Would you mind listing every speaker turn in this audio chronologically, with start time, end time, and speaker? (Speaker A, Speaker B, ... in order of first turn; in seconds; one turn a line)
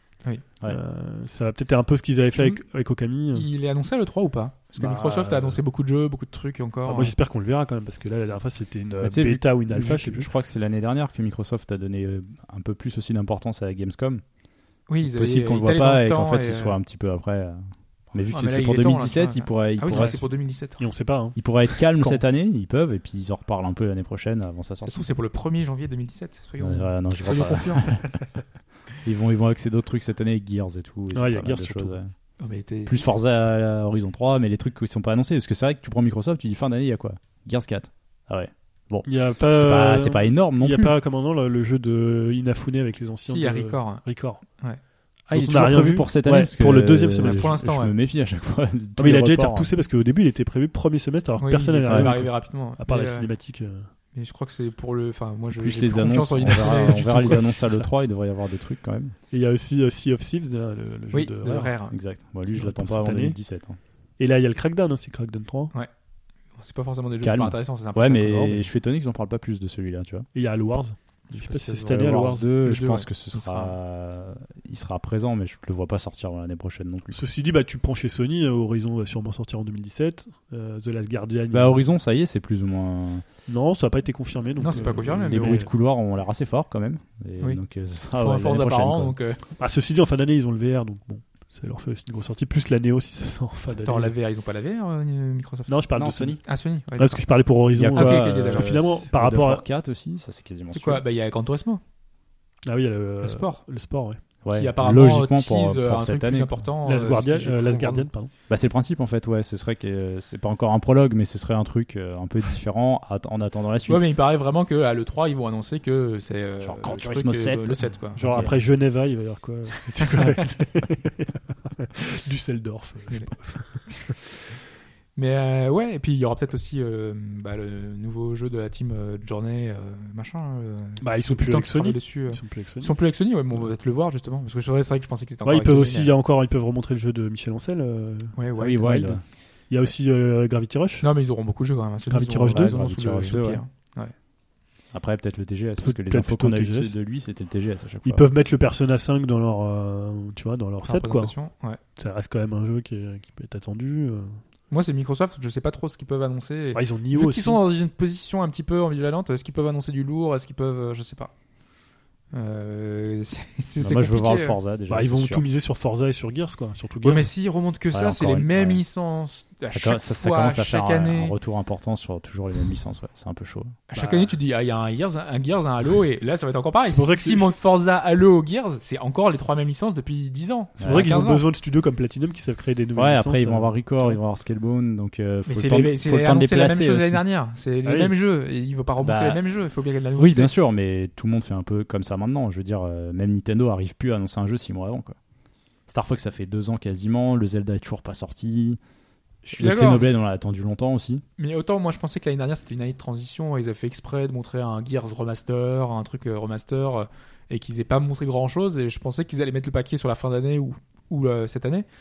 Speaker A: 0.6-3.5
Speaker B: 3.3-7.1
Speaker A: 4.8-5.6
Speaker A: 6.8-10.3
Speaker C: 9.0-14.2
Speaker B: 14.9-16.8
Speaker C: 15.0-20.2
Speaker B: 18.3-20.8
Speaker A: 19.9-20.2
Speaker A: 20.8-21.4
Speaker C: 21.4-25.1
Speaker B: 24.8-28.0
Speaker C: 26.6-28.2
Speaker C: 29.0-32.1
Speaker A: 31.1-32.0
Speaker B: 32.4-33.0
Speaker C: 32.9-40.9
Speaker A: 39.0-44.4
Speaker B: 43.2-44.0
Speaker C: 45.3-49.7
Speaker A: 45.3-47.5
Speaker B: 47.2-47.9
Speaker A: 49.0-53.9
Speaker B: 51.4-53.3
Speaker C: 51.9-52.1
Speaker B: 54.1-57.5
Speaker C: 55.5-59.1
Speaker A: 59.3-61.7
Speaker B: 61.1-62.0
Speaker C: 61.9-63.8
Speaker A: 62.5-63.4
Speaker A: 64.2-65.7
Speaker B: 66.5-68.7
Speaker C: 67.2-70.3
Speaker A: 70.3-72.5
Speaker B: 71.3-71.9
Speaker C: 71.8-77.2
Speaker B: 72.6-73.7
Speaker A: 77.1-81.8
Speaker C: 81.5-83.2
Speaker A: 83.5-85.7
Speaker B: 84.6-85.6
Speaker C: 84.7-89.2
Speaker B: 88.1-89.4
Speaker A: 89.6-94.1
Speaker B: 93.8-95.8
Speaker A: 95.7-96.4
Speaker C: 95.9-96.4
Speaker B: 96.4-97.2
Speaker A: 97.0-99.6
Speaker C: 97.7-101.0
Speaker B: 97.9-98.7
Speaker B: 100.7-101.8
Speaker A: 102.6-104.2
Speaker B: 103.2-103.6
Speaker C: 104.4-106.6
Speaker B: 104.5-108.1
Speaker A: 106.8-108.3
Speaker C: 108.5-114.0
Speaker B: 113.9-118.3
Speaker C: 116.6-118.6
Speaker A: 118.2-124.1
Speaker B: 125.2-136.1
Speaker A: 131.0-132.9
Speaker A: 135.4-139.2
Speaker B: 138.3-139.1
Speaker C: 138.6-139.2
Speaker A: 139.7-141.0
Speaker B: 141.0-144.1
Speaker A: 142.1-142.8
Speaker C: 142.5-143.6
Speaker C: 144.9-148.2
Speaker A: 145.8-146.9
Speaker A: 148.0-151.3
Speaker B: 150.8-151.8
Speaker A: 152.0-154.4
Speaker B: 154.7-161.3
Speaker A: 156.7-157.6
Speaker B: 162.3-164.6
Speaker C: 163.8-165.4
Speaker A: 164.9-167.3
Speaker B: 167.0-171.3
Speaker C: 167.9-168.8
Speaker C: 169.7-173.8
Speaker B: 173.9-181.4
Speaker A: 173.9-174.3
Speaker A: 176.8-177.5
Speaker C: 180.8-181.2
Speaker A: 180.8-184.2
Speaker C: 182.9-187.2
Speaker B: 185.5-190.5
Speaker A: 187.8-188.1
Speaker C: 189.0-189.4
Speaker C: 190.2-195.2
Speaker C: 195.9-198.8
Speaker B: 199.5-200.1
Speaker C: 199.5-201.2
Speaker B: 201.4-211.9